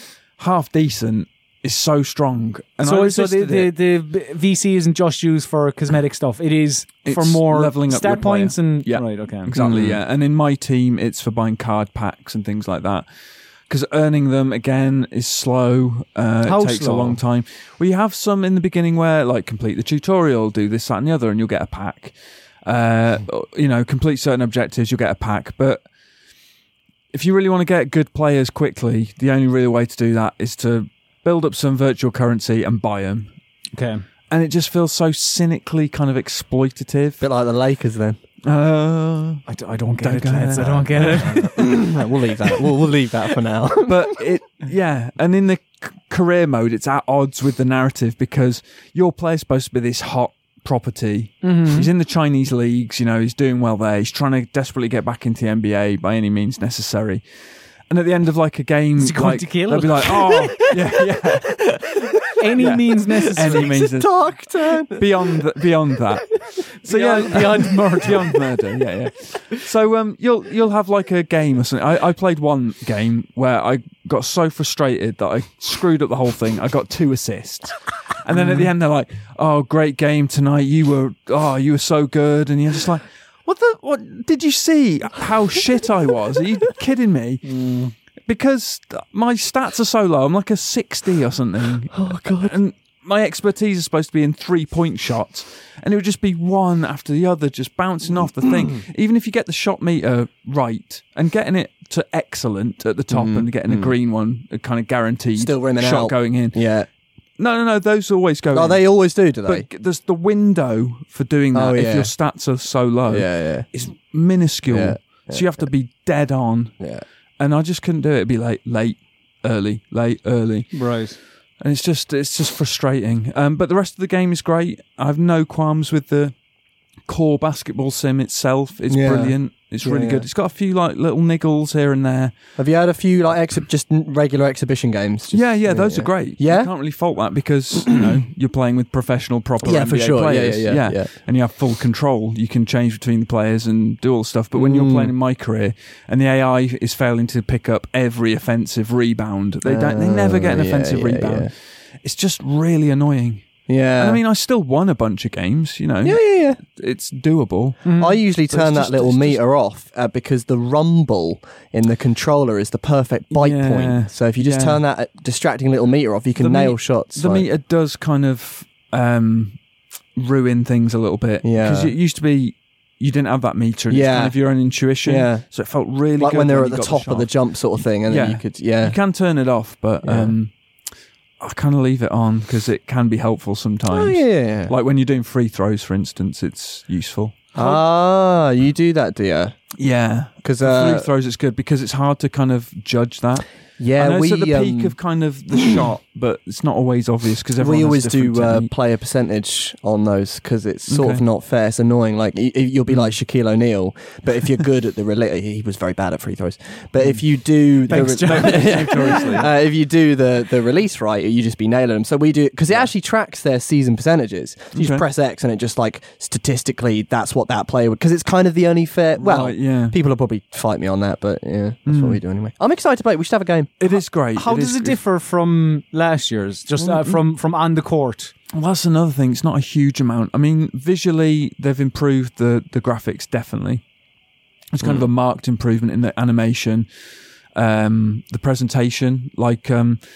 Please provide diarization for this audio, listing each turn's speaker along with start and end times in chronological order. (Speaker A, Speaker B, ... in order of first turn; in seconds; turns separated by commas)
Speaker A: 0.3-3.7, Speaker B: 2.8-9.5, Speaker A: 7.0-13.1, Speaker C: 9.5-10.0, Speaker A: 13.7-22.1, Speaker B: 16.4-17.2, Speaker A: 22.6-25.8, Speaker A: 27.1-33.3, Speaker B: 33.7-34.0, Speaker A: 34.3-37.2, Speaker C: 37.2-38.2, Speaker A: 38.4-39.4, Speaker B: 39.5-41.8, Speaker A: 40.0-41.7, Speaker C: 41.5-44.2, Speaker A: 43.8-57.2, Speaker B: 51.4-51.9, Speaker A: 57.9-87.5, Speaker B: 59.0-61.0, Speaker B: 62.4-63.7, Speaker C: 63.4-65.4, Speaker B: 66.8-68.4, Speaker B: 87.4-87.9, Speaker A: 88.3-106.6, Speaker C: 91.9-92.5, Speaker C: 103.1-103.9, Speaker C: 105.4-106.9, Speaker A: 107.4-116.8, Speaker C: 108.5-109.7, Speaker C: 111.5-112.1, Speaker C: 113.1-113.7, Speaker C: 114.7-115.5, Speaker A: 117.4-120.8, Speaker B: 120.7-121.2, Speaker A: 121.6-126.3, Speaker A: 127.1-132.3, Speaker C: 128.9-130.3, Speaker C: 132.6-136.7, Speaker A: 135.3-159.4, Speaker C: 137.8-138.1, Speaker C: 139.6-141.1, Speaker C: 144.5-145.1, Speaker C: 149.7-151.5, Speaker C: 153.7-154.2, Speaker C: 156.0-156.6, Speaker B: 157.8-158.2, Speaker C: 158.0-167.5, Speaker A: 163.3-164.8, Speaker A: 166.4-169.6, Speaker A: 170.2-180.5, Speaker C: 171.4-171.9, Speaker C: 173.9-174.4, Speaker C: 175.0-175.4, Speaker C: 176.2-179.0, Speaker C: 180.0-180.3, Speaker A: 181.4-187.8, Speaker C: 183.9-184.7, Speaker C: 187.6-189.6, Speaker A: 189.8-198.7, Speaker C: 190.4-191.1, Speaker C: 193.8-195.0, Speaker C: 195.6-195.8, Speaker C: 197.6-223.7, Speaker A: 200.9-201.2, Speaker A: 207.8-209.5, Speaker B: 207.9-209.3, Speaker A: 214.8-215.1, Speaker A: 219.2-220.0, Speaker A: 221.9-222.2, Speaker A: 223.8-225.0, Speaker B: 223.9-228.3, Speaker A: 226.8-227.2, Speaker A: 228.5-233.8, Speaker A: 234.7-236.9, Speaker A: 237.6-240.0